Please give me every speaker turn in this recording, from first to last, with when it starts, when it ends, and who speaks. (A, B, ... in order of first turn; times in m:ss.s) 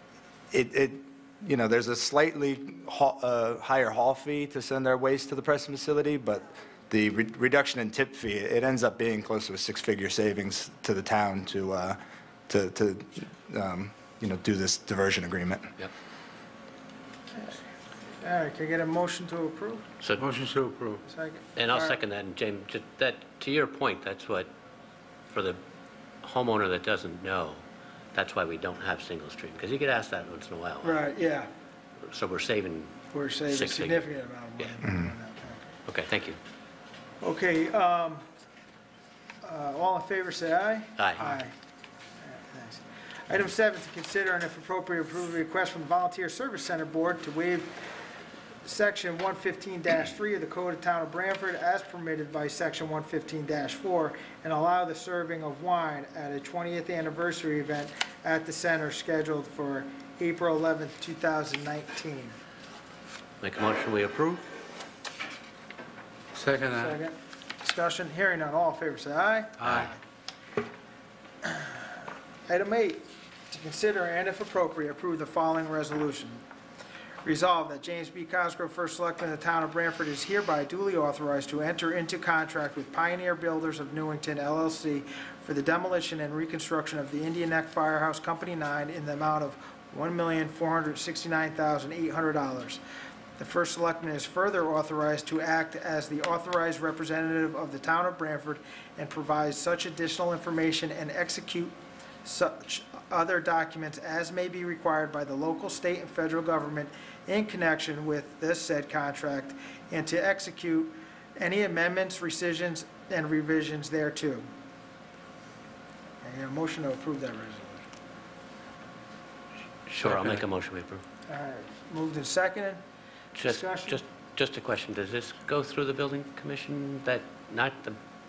0:00.5-0:15.7 A
0:18.2-0:19.9 B
0:20.2-0:21.0 C
0:21.0-0:22.0 B
0:21.6-0:24.5 D
0:25.3-0:25.6 D
0:26.2-0:27.6 D
0:28.1-0:31.0 D
0:30.8-0:31.5 B
0:32.1-0:33.0 D
0:33.1-0:35.6 B
0:33.5-0:34.1 D
0:35.9-0:36.4 D
0:37.2-0:38.2 B
0:39.4-0:41.5 B
0:41.0-0:41.3 D
0:42.3-0:47.7 B
0:48.6-1:02.4 B
1:03.4-1:04.5 D
1:06.3-1:07.0 C
1:06.8-1:09.9 B
1:09.6-1:09.9 C
1:11.5-1:11.8 B
1:12.5-1:16.4 B
1:17.2-1:32.8 B
1:33.4-1:54.5 B
1:56.2-1:57.8 B
1:59.9-2:01.0 D
2:00.0-2:00.4 C
2:01.3-2:02.8 B
2:03.3-2:08.0 D
2:03.4-2:04.0 B